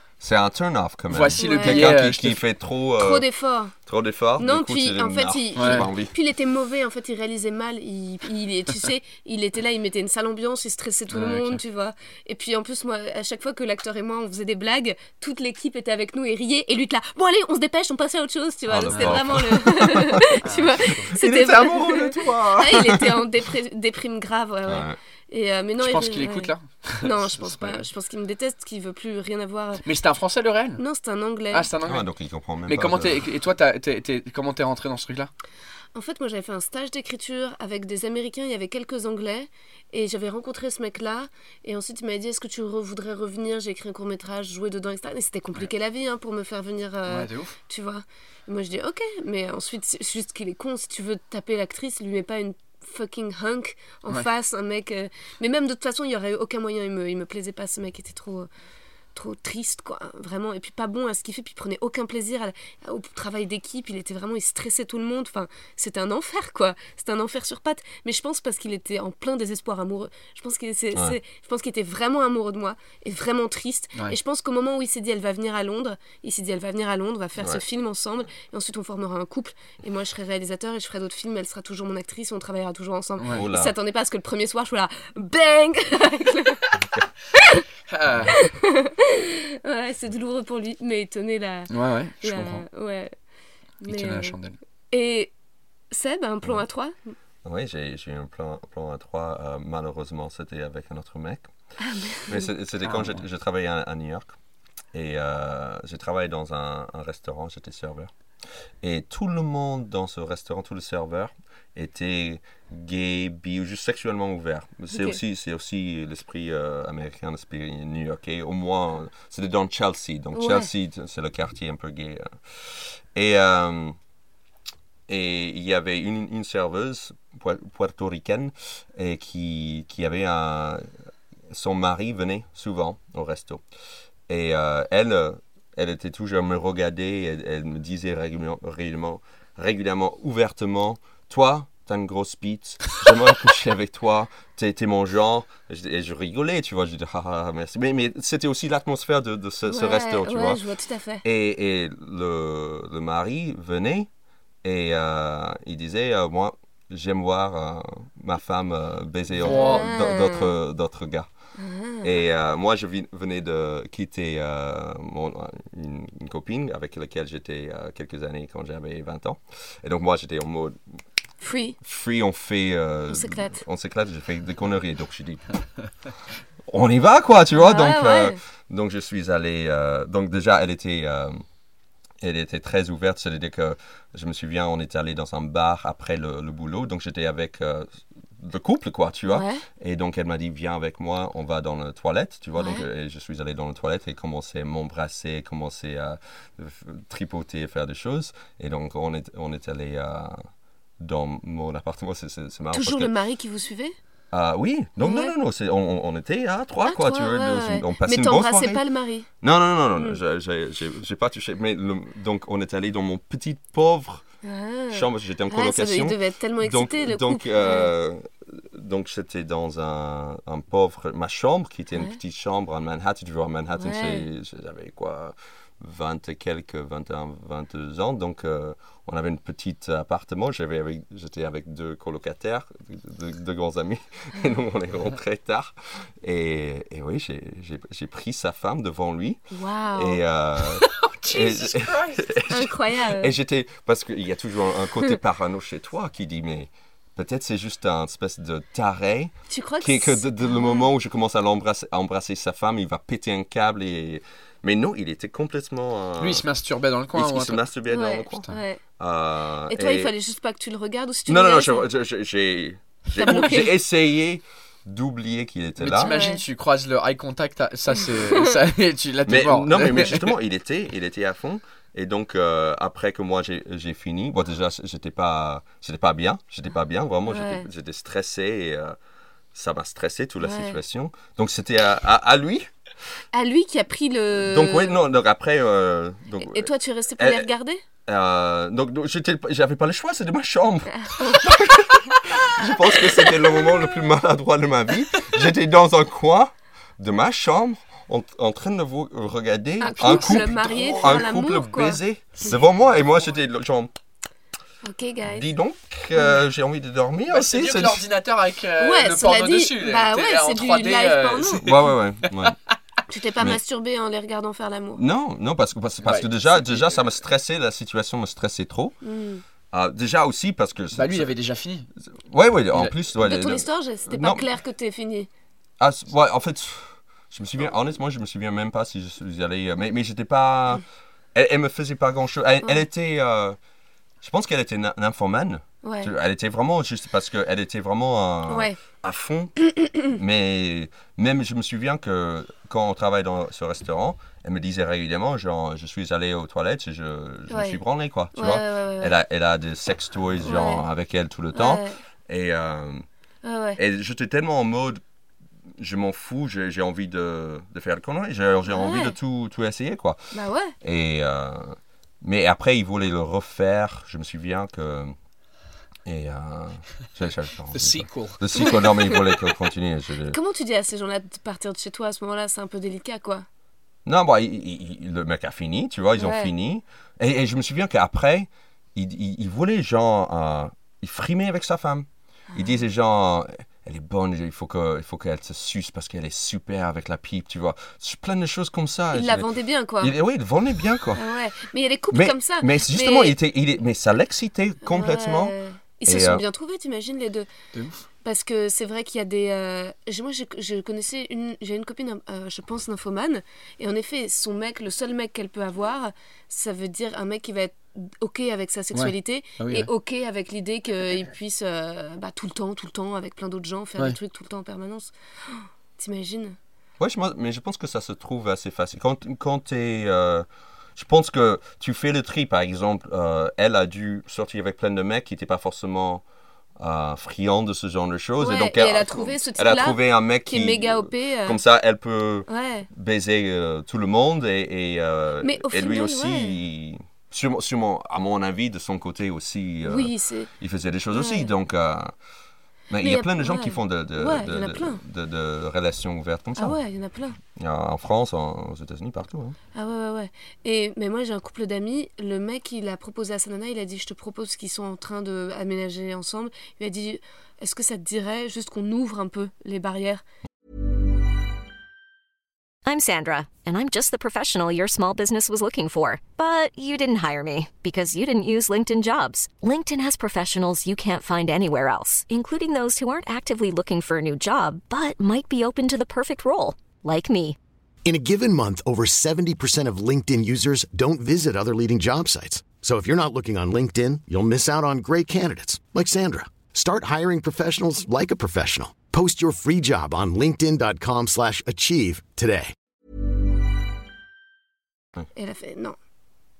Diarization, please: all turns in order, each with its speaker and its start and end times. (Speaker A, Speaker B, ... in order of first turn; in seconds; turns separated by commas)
Speaker A: 0.2-3.2, Speaker B: 1.1-2.4, Speaker C: 1.4-1.9, Speaker C: 3.0-3.8, Speaker A: 3.8-6.1, Speaker C: 4.4-29.8, Speaker B: 5.5-5.9, Speaker B: 11.1-11.6, Speaker A: 18.7-20.4, Speaker B: 18.9-19.2, Speaker B: 20.4-21.1, Speaker A: 21.1-23.2, Speaker A: 24.7-24.9, Speaker B: 25.8-27.8, Speaker B: 29.8-30.8, Speaker C: 30.8-31.7, Speaker B: 31.5-32.1, Speaker A: 31.8-33.2, Speaker B: 32.6-35.3, Speaker C: 35.9-58.5, Speaker B: 47.0-47.5, Speaker C: 59.1-86.7, Speaker B: 83.2-83.4, Speaker A: 83.3-83.7, Speaker C: 87.3-87.6, Speaker B: 87.9-88.3, Speaker C: 88.3-93.1, Speaker B: 91.7-92.7, Speaker C: 93.8-94.4, Speaker B: 93.9-94.6, Speaker C: 94.9-95.3, Speaker C: 95.9-96.9, Speaker A: 97.4-101.5, Speaker C: 101.8-102.5, Speaker A: 102.3-104.3, Speaker B: 102.8-103.2, Speaker A: 104.9-108.1, Speaker A: 108.8-124.0, Speaker C: 114.9-115.2, Speaker C: 120.3-120.7, Speaker A: 125.1-130.9, Speaker A: 131.5-133.6, Speaker A: 134.3-150.6, Speaker C: 149.7-151.2, Speaker A: 151.2-154.1, Speaker A: 154.6-161.3, Speaker B: 159.4-159.9, Speaker C: 159.4-160.5, Speaker C: 161.6-162.1, Speaker A: 162.0-170.8, Speaker C: 171.4-171.8, Speaker A: 171.8-175.8, Speaker C: 173.1-173.6, Speaker A: 176.7-181.4, Speaker C: 177.6-178.4, Speaker A: 182.2-200.5, Speaker C: 189.3-189.6, Speaker C: 192.6-192.9, Speaker A: 201.0-203.1, Speaker C: 202.7-203.9, Speaker A: 204.3-208.8, Speaker C: 205.0-205.3, Speaker C: 206.8-209.3, Speaker A: 209.4-214.2, Speaker C: 214.4-217.9, Speaker A: 214.9-239.4, Speaker C: 223.8-224.3, Speaker C: 239.5-240.2, Speaker A: 239.9-256.4, Speaker B: 240.7-242.3, Speaker C: 242.5-243.3, Speaker C: 249.5-250.9, Speaker B: 256.2-257.6, Speaker A: 257.1-258.5, Speaker C: 257.9-258.8, Speaker A: 259.0-260.1, Speaker C: 259.7-261.9, Speaker A: 261.3-266.2, Speaker C: 263.2-263.8, Speaker B: 265.8-270.4, Speaker C: 266.0-266.4, Speaker A: 269.2-278.9, Speaker C: 277.3-277.7, Speaker A: 279.5-282.7, Speaker C: 280.4-280.8, Speaker C: 283.3-285.0, Speaker A: 284.4-287.5, Speaker C: 286.4-287.8, Speaker A: 288.1-303.9, Speaker C: 290.9-292.0, Speaker C: 293.1-293.9, Speaker C: 299.8-302.5, Speaker C: 304.8-305.4, Speaker A: 305.3-308.0, Speaker C: 306.1-306.4, Speaker B: 307.3-312.5, Speaker C: 308.8-311.8, Speaker A: 311.6-312.6, Speaker C: 313.1-315.0, Speaker A: 315.0-318.9, Speaker B: 316.0-317.1, Speaker C: 319.0-319.4, Speaker A: 319.7-321.3, Speaker B: 320.9-321.9, Speaker A: 322.2-324.4, Speaker B: 322.7-322.9, Speaker C: 323.2-325.3, Speaker A: 325.8-330.8, Speaker A: 331.3-333.6, Speaker A: 334.2-353.1, Speaker C: 335.8-336.1, Speaker C: 338.5-338.8, Speaker C: 347.5-347.8, Speaker C: 348.3-349.1, Speaker C: 350.4-350.8, Speaker C: 351.5-352.0, Speaker C: 353.4-353.8, Speaker A: 353.8-355.0, Speaker A: 355.8-360.2, Speaker C: 358.7-359.1, Speaker C: 360.3-360.7, Speaker A: 360.8-365.1, Speaker A: 366.1-370.4, Speaker B: 367.7-368.7, Speaker C: 368.5-369.4, Speaker C: 370.3-373.4, Speaker A: 374.1-389.5, Speaker C: 376.2-376.5, Speaker C: 382.5-382.8, Speaker C: 389.1-390.1, Speaker A: 390.0-391.2, Speaker C: 391.1-393.4, Speaker A: 392.1-395.5, Speaker C: 394.8-397.5, Speaker A: 396.1-396.4, Speaker B: 397.7-398.1, Speaker C: 398.2-416.6, Speaker B: 408.9-409.9, Speaker A: 417.0-426.2, Speaker A: 426.8-442.1, Speaker C: 428.4-431.6, Speaker C: 432.5-432.9, Speaker C: 435.4-436.6, Speaker C: 439.8-440.5, Speaker C: 441.1-441.5, Speaker A: 442.9-446.8, Speaker C: 443.0-445.0, Speaker C: 446.6-447.4, Speaker A: 447.5-449.6, Speaker C: 449.7-460.2, Speaker D: 462.9-477.6, Speaker E: 478.0-492.7, Speaker C: 495.3-495.9